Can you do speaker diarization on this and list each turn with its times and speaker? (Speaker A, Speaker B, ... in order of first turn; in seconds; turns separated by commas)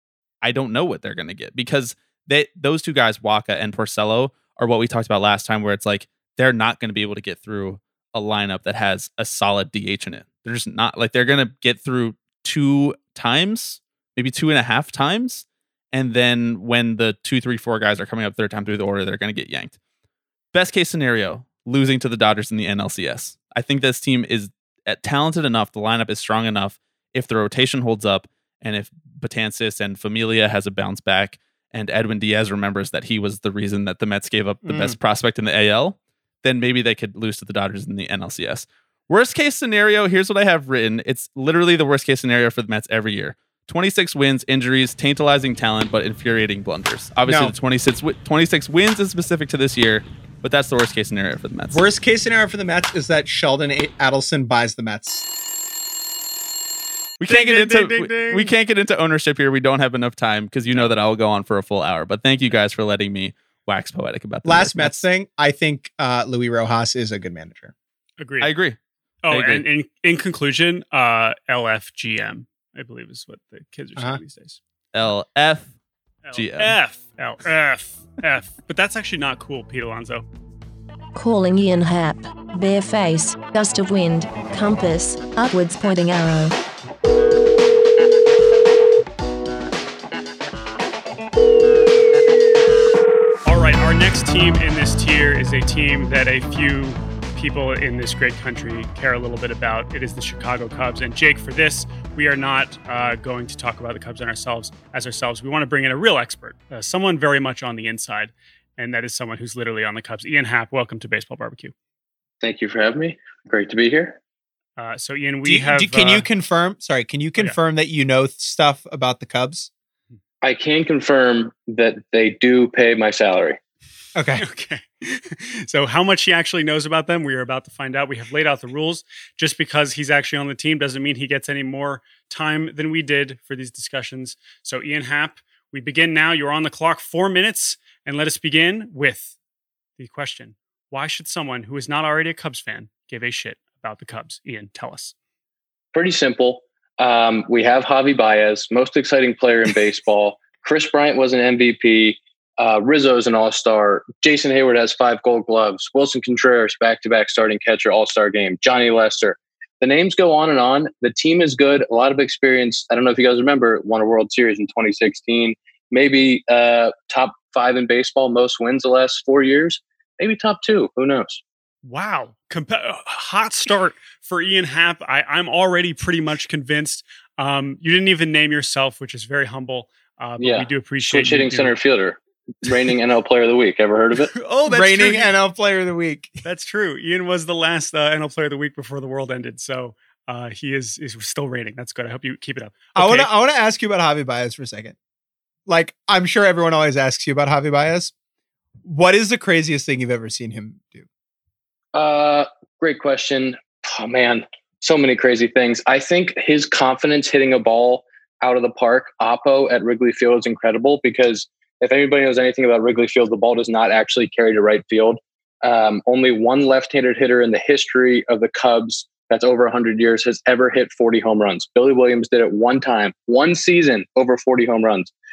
Speaker A: 0.4-19.7, Speaker A: 20.5-51.8, Speaker B: 34.6-35.0, Speaker B: 47.3-47.5, Speaker B: 51.7-55.3, Speaker A: 57.2-65.0, Speaker C: 57.3-58.5, Speaker C: 60.7-61.0, Speaker B: 64.4-67.7, Speaker C: 68.2-68.5, Speaker A: 68.4-68.8, Speaker C: 69.2-74.6, Speaker A: 69.3-69.6, Speaker A: 74.9-75.7, Speaker C: 76.2-80.3, Speaker A: 76.3-76.8, Speaker D: 81.1-86.5, Speaker C: 93.4-111.7, Speaker E: 112.4-114.2, Speaker C: 114.8-116.3, Speaker B: 115.4-119.7, Speaker E: 120.4-123.6, Speaker B: 124.1-124.4, Speaker C: 124.4-139.3, Speaker C: 140.0-145.1, Speaker E: 145.9-171.4, Speaker C: 171.8-181.7, Speaker E: 180.4-184.3, Speaker C: 184.3-185.3, Speaker B: 184.7-186.4, Speaker C: 186.4-193.3, Speaker B: 192.9-194.9, Speaker B: 195.7-198.1, Speaker B: 198.8-201.1, Speaker E: 201.9-225.1